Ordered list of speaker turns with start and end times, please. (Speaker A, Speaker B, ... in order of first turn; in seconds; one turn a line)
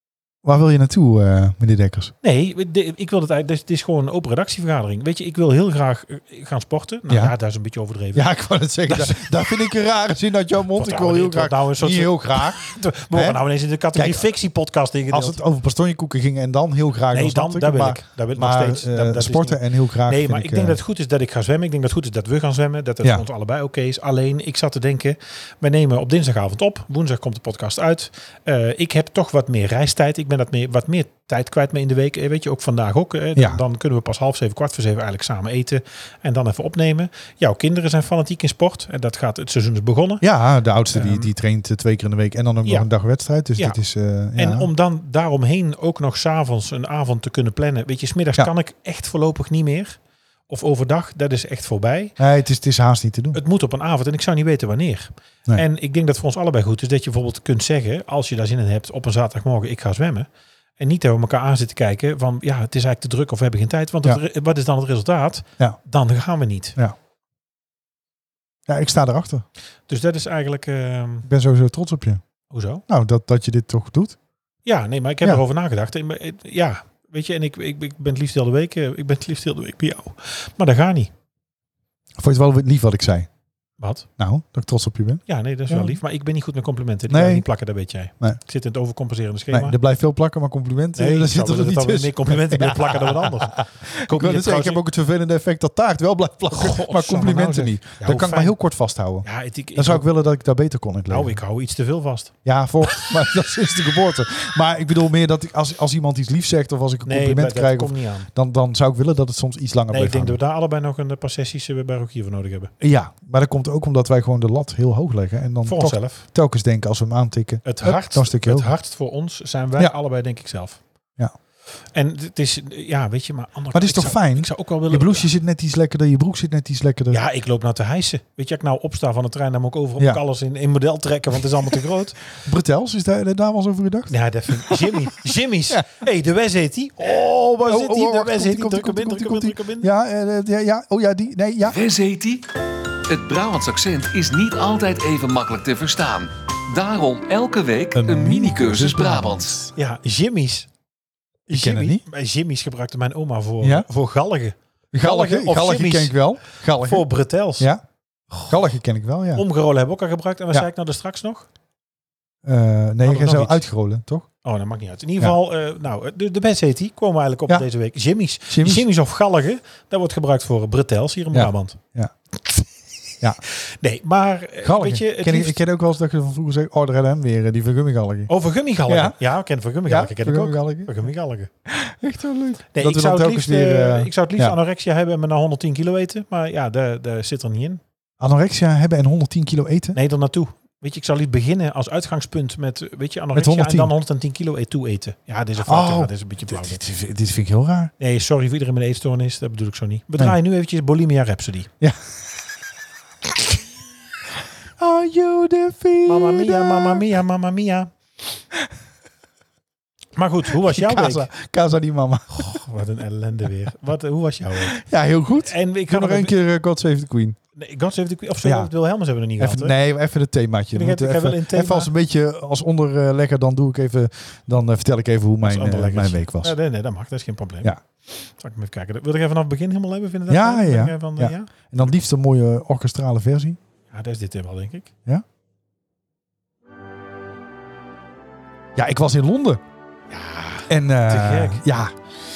Speaker A: 0.4-2.1
Speaker B: 2.2-8.3
Speaker A: 7.1-7.3
Speaker A: 8.1-13.4
Speaker B: 8.8-9.5
Speaker B: 10.7-15.4
Speaker A: 13.9-14.3
Speaker A: 15.1-20.8
Speaker B: 17.1-40.2
Speaker A: 33.4-33.6
Speaker A: 40.2-44.7
Speaker B: 40.9-41.3
Speaker B: 44.4-52.2
Speaker A: 52.2-53.4
Speaker B: 53.3-60.3
Speaker B: 60.8-66.8
Speaker A: 68.7-69.4
Speaker B: 69.9-71.3
Speaker A: 71.2-72.2
Speaker B: 72.5-72.8
Speaker A: 72.9-74.2
Speaker B: 74.6-81.1
Speaker A: 82.2-83.3
Speaker B: 83.8-84.1
Speaker A: 84.2-86.0
Speaker B: 85.3-89.8
Speaker A: 87.1-87.4
Speaker A: 89.5-101.4
Speaker B: 91.0-94.8
Speaker B: 96.5-98.6
Speaker B: 99.2-100.1
Speaker B: 101.1-102.3
Speaker A: 102.4-110.4
Speaker B: 107.0-108.3
Speaker B: 109.9-112.7
Speaker A: 112.8-118.7
Speaker B: 115.6-116.2
Speaker B: 117.6-120.8
Speaker B: 121.9-125.3
Speaker A: 123.7-127.2
Speaker B: 127.1-132.2
Speaker A: 132.3-134.1
Speaker B: 134.1-139.9
Speaker A: 134.6-135.1
Speaker A: 137.0-141.8
Speaker C: 141.7-142.4
Speaker C: 143.1-149.6
Speaker A: 147.9-149.7
Speaker B: 149.7-150.7
Speaker B: 151.5-156.2
Speaker A: 151.5-152.0
Speaker A: 153.6-153.8
Speaker A: 154.9-157.1
Speaker B: 156.7-157.7
Speaker A: 158.5-159.4
Speaker B: 159.3-161.5
Speaker A: 162.4-164.3
Speaker B: 163.0-163.6
Speaker B: 164.4-171.8
Speaker A: 168.5-168.9
Speaker A: 171.3-172.1
Speaker B: 173.4-175.6
Speaker A: 174.6-178.3
Speaker B: 178.3-181.5
Speaker A: 178.9-179.2
Speaker A: 179.8-181.1
Speaker A: 181.7-184.6
Speaker B: 182.7-187.8
Speaker A: 188.2-190.0
Speaker B: 189.9-196.8
Speaker A: 193.3-193.9
Speaker A: 195.7-197.9
Speaker B: 198.0-201.7
Speaker A: 204.8-207.0
Speaker B: 206.1-207.9
Speaker B: 210.2-211.3
Speaker A: 210.5-212.6
Speaker B: 212.3-214.8
Speaker A: 214.6-217.4
Speaker B: 215.4-216.3
Speaker B: 217.6-219.8
Speaker A: 218.4-218.7
Speaker A: 219.4-226.5
Speaker B: 220.7-221.9
Speaker B: 225.4-231.5
Speaker A: 230.3-233.6
Speaker B: 233.9-234.9
Speaker A: 238.7-239.6
Speaker B: 240.1-241.6
Speaker A: 240.7-241.9